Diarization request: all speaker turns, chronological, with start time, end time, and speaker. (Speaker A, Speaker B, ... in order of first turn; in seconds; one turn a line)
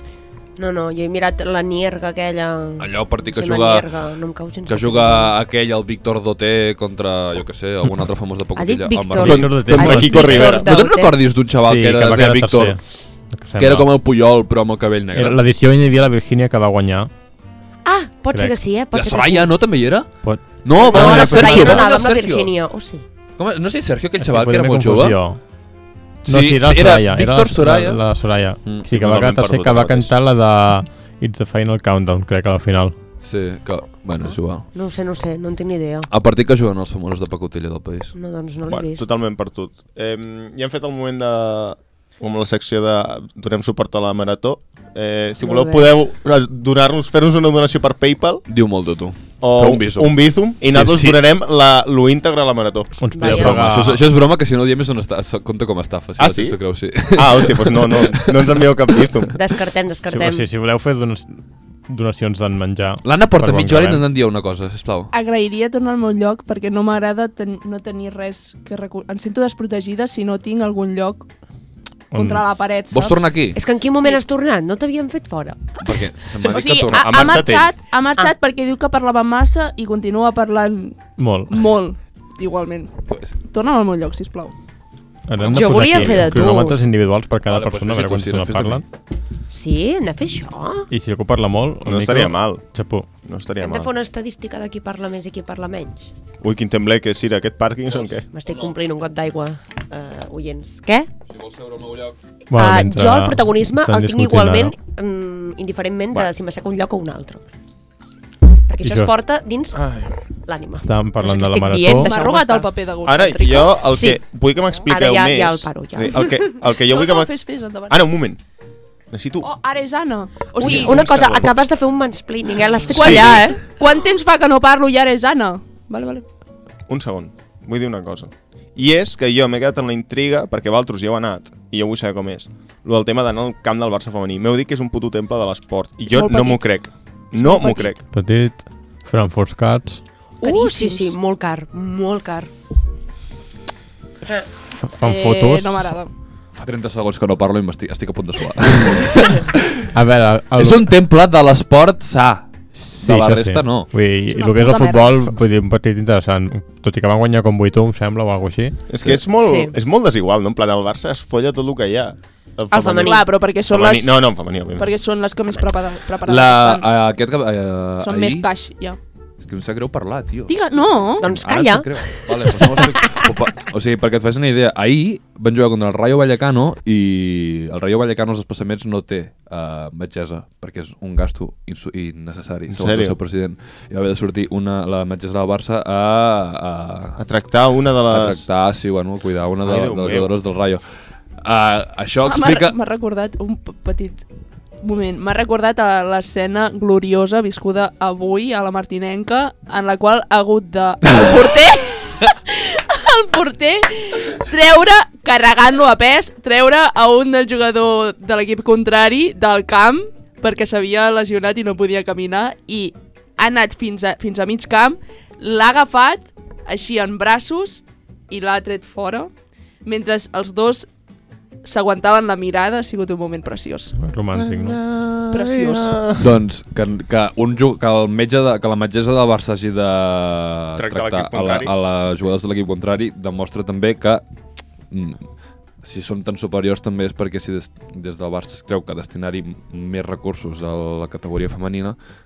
Speaker A: 0.6-5.3
Speaker B: 2.8-3.9
Speaker B: 4.7-12.8
Speaker A: 8.6-11.2
Speaker C: 9.2-10.7
Speaker D: 9.3-10.7
Speaker D: 11.5-13.9
Speaker B: 13.6-15.4
Speaker D: 15.1-17.1
Speaker A: 17.9-19.5
Speaker B: 18.9-22.5
Speaker D: 20.2-21.8
Speaker A: 20.8-23.0
Speaker B: 23.4-25.2
Speaker D: 24.2-25.4
Speaker B: 26.3-28.0
Speaker D: 26.3-32.9
Speaker C: 28.9-30.1
Speaker B: 33.2-34.7
Speaker A: 34.7-36.1
Speaker B: 36.1-38.1
Speaker A: 38.1-39.1
Speaker C: 38.7-48.5
Speaker A: 45.4-46.0
Speaker B: 48.5-51.2
Speaker C: 49.4-53.0
Speaker D: 53.0-54.1
Speaker A: 53.1-53.7
Speaker B: 53.2-58.7
Speaker C: 56.2-59.4
Speaker A: 59.4-60.5
Speaker D: 60.1-61.3
Speaker D: 61.9-64.0
Speaker B: 63.0-65.1
Speaker E: 65.1-71.3
Speaker E: 72.1-73.3
Speaker D: 72.1-72.4
Speaker B: 72.9-73.6
Speaker A: 73.5-75.8
Speaker B: 75.8-77.4
Speaker E: 76.5-84.5
Speaker C: 77.0-77.8
Speaker D: 81.2-81.6
Speaker B: 83.1-83.3
Speaker D: 85.3-88.8
Speaker B: 85.4-86.5
Speaker A: 85.5-86.8
Speaker B: 87.5-88.8
Speaker A: 89.5-90.9
Speaker D: 90.9-93.1
Speaker C: 91.8-92.7
Speaker C: 93.2-93.9
Speaker A: 93.6-96.1
Speaker C: 96.4-98.3
Speaker B: 97.9-98.7
Speaker A: 98.3-101.1
Speaker B: 101.3-102.2
Speaker D: 102.5-104.7
Speaker A: 102.5-107.5
Speaker A: 108.7-109.8
Speaker D: 108.8-109.1
Speaker C: 109.8-110.2
Speaker A: 110.5-112.7
Speaker D: 110.8-112.1
Speaker E: 111.9-113.8
Speaker C: 113.1-118.4
Speaker A: 113.9-114.2
Speaker A: 114.9-116.3
Speaker E: 116.5-118.0
Speaker C: 119.1-119.5
Speaker E: 119.4-121.1
Speaker C: 120.6-121.5
Speaker A: 120.6-123.6
Speaker C: 122.9-123.5
Speaker E: 122.9-126.2
Speaker C: 126.9-138.0
Speaker E: 136.1-136.6
Speaker E: 137.3-138.0
Speaker D: 138.1-140.0
Speaker A: 140.4-142.5
Speaker E: 140.4-141.2
Speaker D: 144.7-145.9
Speaker E: 145.0-146.1
Speaker B: 146.5-149.9
Speaker D: 149.9-150.9
Speaker B: 150.6-153.9
Speaker D: 152.7-158.8
Speaker E: 154.3-155.3
Speaker C: 158.9-164.9
Speaker A: 159.4-159.8
Speaker A: 162.7-163.3
Speaker E: 162.7-164.2
Speaker E: 164.8-166.9
Speaker B: 166.2-168.5
Speaker E: 168.0-169.0
Speaker B: 169.4-187.2
Speaker E: 170.5-171.3
Speaker A: 171.2-173.3
Speaker C: 182.7-183.2
Speaker C: 187.2-188.4
Speaker B: 188.1-190.9
Speaker C: 189.6-190.3
Speaker B: 191.4-192.8
Speaker E: 192.2-194.2
Speaker E: 194.8-219.3
Speaker E: 219.8-220.9
Speaker E: 221.6-224.0
Speaker D: 224.0-224.8
Speaker C: 224.4-226.3
Speaker E: 225.3-226.0
Speaker B: 226.2-234.2
Speaker C: 230.8-231.7
Speaker B: 234.9-235.3
Speaker B: 235.8-242.0